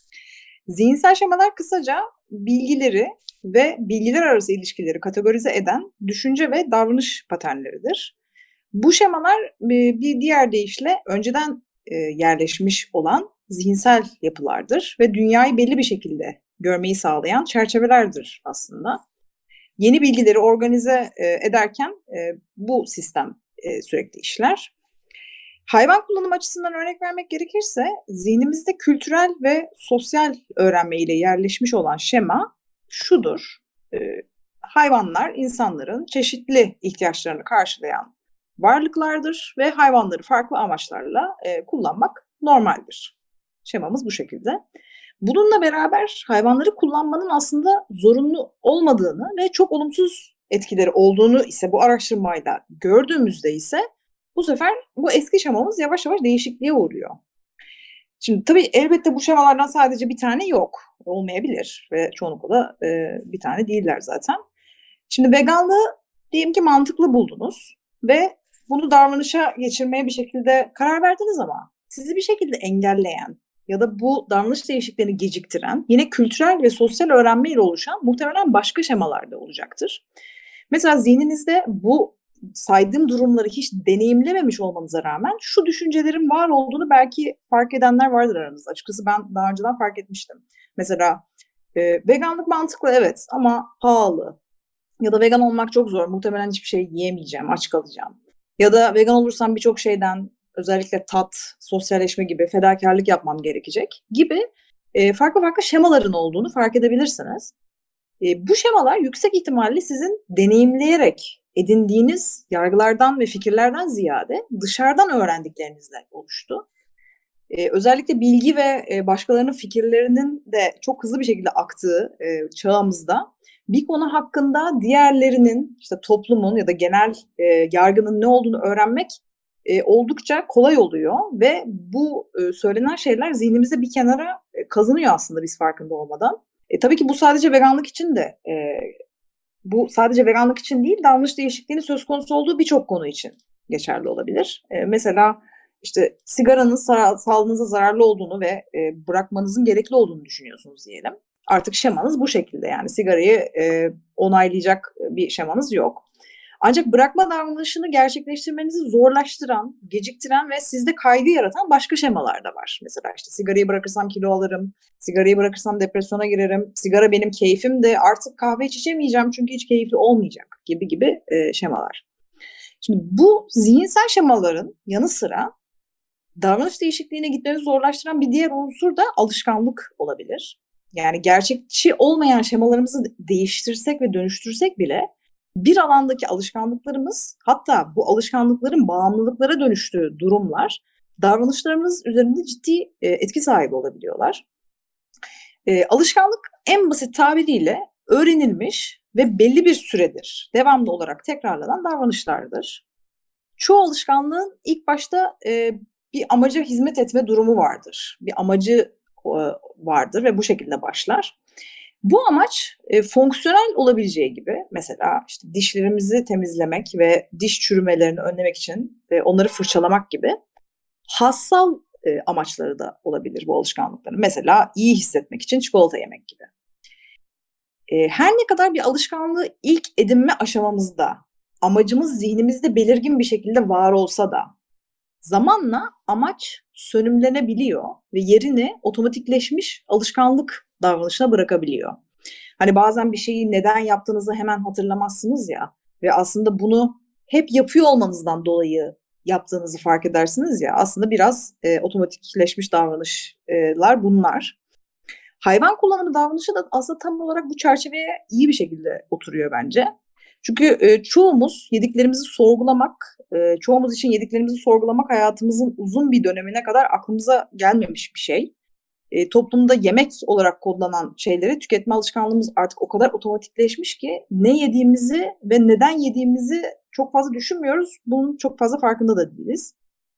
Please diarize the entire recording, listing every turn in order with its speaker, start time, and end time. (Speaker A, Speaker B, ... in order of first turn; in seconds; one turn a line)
Speaker A: 0.7-8.1
Speaker A: 8.7-19.0
Speaker A: 19.8-24.7
Speaker A: 25.7-43.1
Speaker A: 43.6-44.6
Speaker A: 45.2-53.8
Speaker A: 54.4-57.2
Speaker A: 58.2-64.4
Speaker A: 65.1-80.0
Speaker A: 80.7-91.2
Speaker A: 91.8-94.4
Speaker A: 95.0-107.5
Speaker A: 108.2-116.7
Speaker A: 117.5-138.9
Speaker A: 139.7-156.0
Speaker A: 156.6-172.0
Speaker A: 172.8-175.5
Speaker A: 176.4-194.4
Speaker A: 195.7-202.8
Speaker A: 203.6-211.3
Speaker A: 212.0-220.3
Speaker A: 221.1-226.5
Speaker A: 227.9-234.5
Speaker A: 235.2-242.0
Speaker A: 242.6-254.6
Speaker A: 255.4-259.9
Speaker A: 260.4-268.5
Speaker A: 269.1-279.7